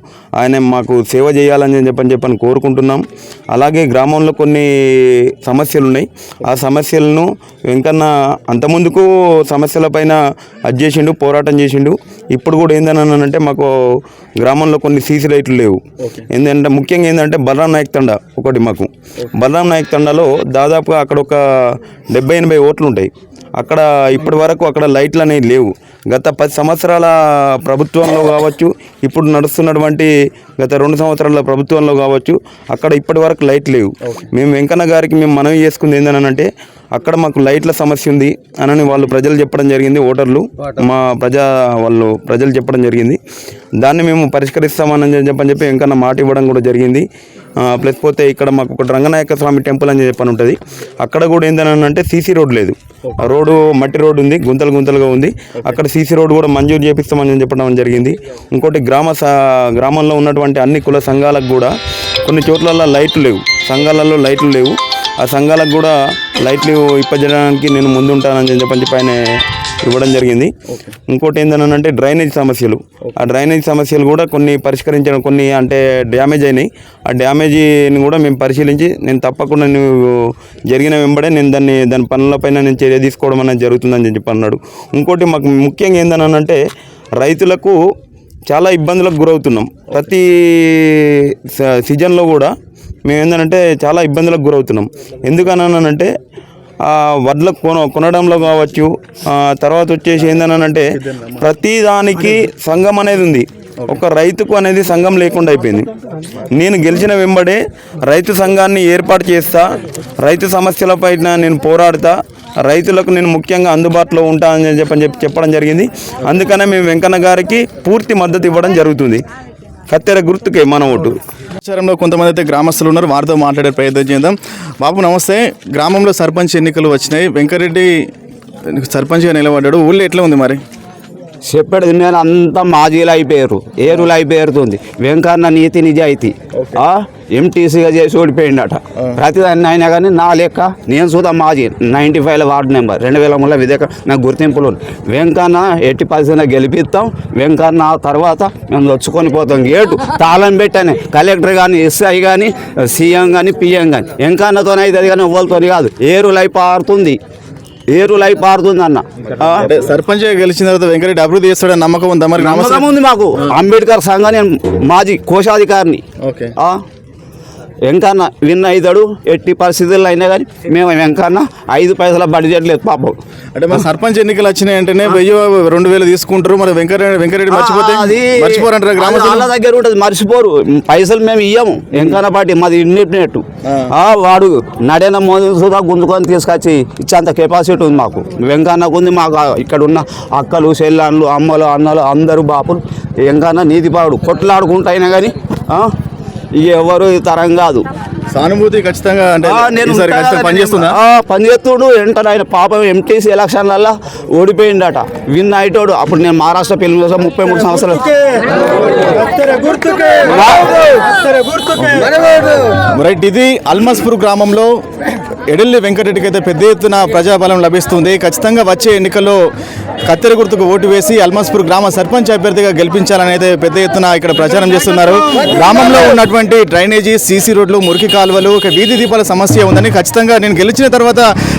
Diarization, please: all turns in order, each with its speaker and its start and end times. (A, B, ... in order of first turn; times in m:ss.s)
0:00.4-0:15.8 A
0:16.3-0:43.2 A
0:43.8-0:47.0 A
0:47.6-1:01.7 A
1:02.2-1:09.2 A
1:09.8-1:10.5 A
1:10.7-1:10.9 B
1:11.1-1:26.6 A
1:27.2-1:27.8 A
1:28.5-1:32.5 A
1:33.0-1:36.1 A
1:36.8-1:45.9 A
1:40.9-1:41.4 B
1:46.5-1:59.2 A
1:59.9-2:01.2 A
2:01.6-2:08.0 B
2:08.7-2:10.6 B
2:11.4-2:37.2 C
2:16.5-2:16.8 B
2:37.9-2:39.6 C
2:39.4-2:43.6 B
2:42.4-2:46.0 C
2:46.2-2:46.5 B
2:47.8-2:53.2 C
2:53.5-2:59.5 B
2:57.5-3:15.9 C
3:03.6-3:03.9 B
3:16.5-3:17.9 C
3:18.3-3:21.0 B
3:19.4-3:28.1 C
3:29.2-3:29.6 C
3:30.1-3:31.2 C
3:31.7-3:32.1 B
3:32.9-3:34.7 B
3:35.5-3:39.4 B
3:40.0-3:51.3 B